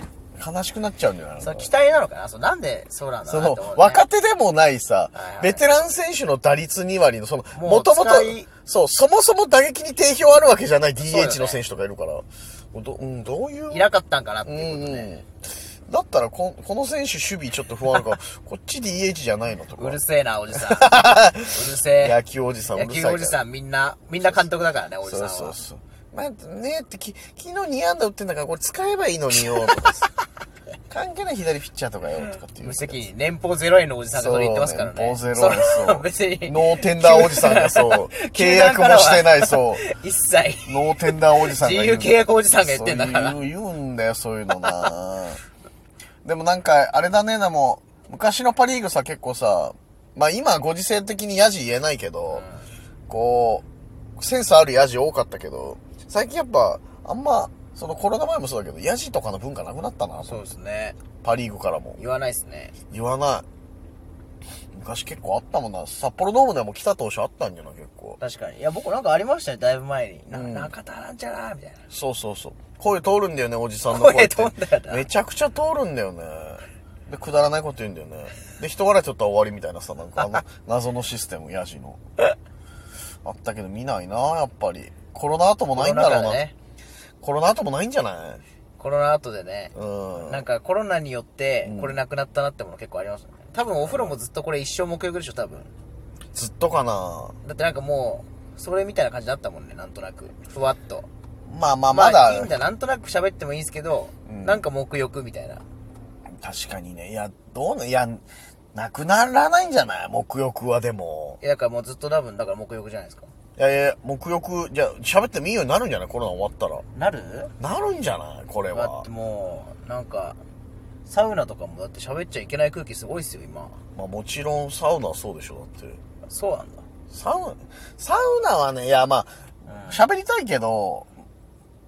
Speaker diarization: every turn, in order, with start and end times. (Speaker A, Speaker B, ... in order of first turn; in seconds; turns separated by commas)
Speaker A: 0.3-1.7, Speaker B: 1.4-4.0, Speaker A: 3.2-13.9, Speaker B: 5.1-5.6, Speaker B: 7.5-8.5, Speaker B: 11.0-11.6, Speaker B: 13.7-15.1, Speaker A: 14.4-15.3, Speaker A: 15.9-20.0, Speaker B: 19.8-22.2, Speaker A: 20.5-23.4, Speaker B: 22.7-25.6, Speaker A: 25.0-30.1, Speaker A: 30.9-33.0, Speaker B: 32.5-43.4, Speaker A: 34.1-39.8, Speaker A: 40.6-45.4, Speaker A: 46.2-52.4, Speaker B: 52.3-52.7, Speaker A: 53.1-53.6, Speaker A: 54.2-60.5, Speaker B: 60.2-61.0, Speaker A: 61.2-62.0, Speaker B: 62.0-62.7, Speaker A: 62.9-63.5, Speaker A: 64.7-68.2, Speaker B: 68.2-71.8, Speaker A: 70.3-70.7, Speaker A: 71.9-82.0, Speaker B: 73.9-75.1, Speaker A: 83.2-86.4, Speaker B: 85.7-86.5, Speaker A: 87.2-88.4, Speaker B: 88.8-95.7, Speaker A: 89.7-90.5, Speaker A: 91.6-92.0, Speaker A: 93.8-94.1, Speaker A: 96.3-97.3, Speaker B: 97.4-101.1, Speaker A: 101.5-102.6, Speaker B: 101.9-105.6, Speaker A: 104.2-104.6, Speaker A: 106.4-111.4, Speaker B: 111.4-113.3, Speaker A: 113.6-116.8, Speaker B: 116.9-117.5, Speaker A: 117.6-119.1, Speaker B: 118.7-120.4, Speaker B: 121.0-123.8, Speaker A: 123.9-126.0, Speaker B: 126.2-126.8, Speaker A: 127.1-131.1, Speaker B: 129.7-130.0